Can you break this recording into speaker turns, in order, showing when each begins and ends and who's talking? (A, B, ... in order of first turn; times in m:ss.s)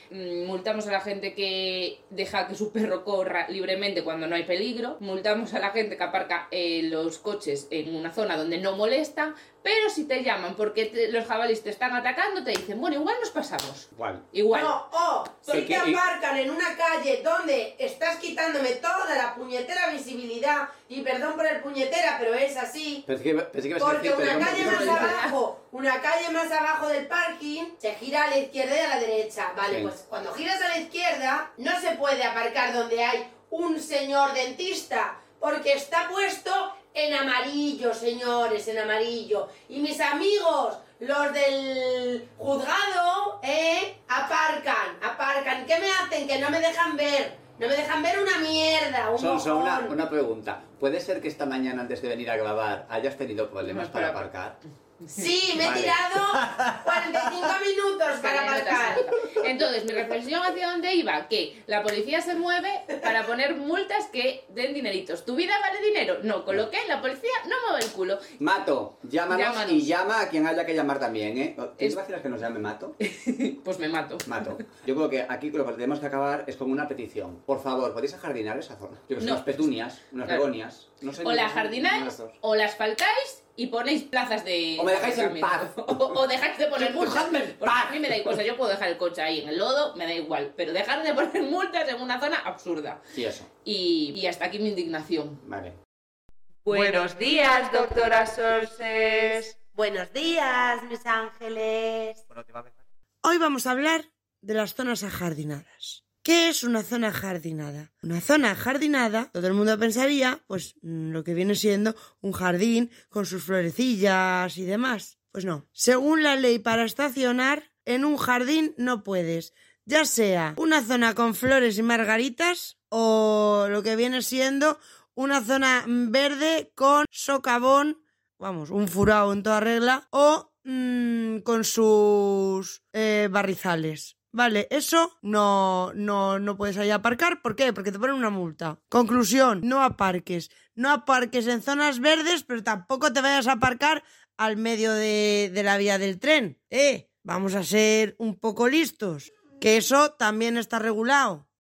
0:00.1-0:14.8 A
0:14.0-0:14.3 B
0:14.5-0:23.0 C
0:15.5-0:16.0 B
0:23.1-0:25.2 B
0:23.8-0:50.0 C
0:24.3-0:25.4 A
0:29.7-0:29.9 B
0:49.2-0:54.6 B
0:53.6-0:54.3 A
0:55.1-0:59.1 C
0:55.6-0:57.5 B
0:58.1-1:08.3 A
1:08.4-1:13.0 B
1:09.3-1:09.9 A
1:13.0-1:14.5 A
1:14.3-1:22.4 B
1:19.2-1:19.6 A
1:21.2-1:33.0 A
1:24.8-1:26.2 B
1:26.8-1:28.4 B
1:33.1-1:33.5 B
1:33.6-1:35.4 A
1:35.4-1:35.8 B
1:36.7-1:39.5 A
1:36.7-1:42.2 C
1:42.3-1:42.7 B
1:43.2-2:31.4 D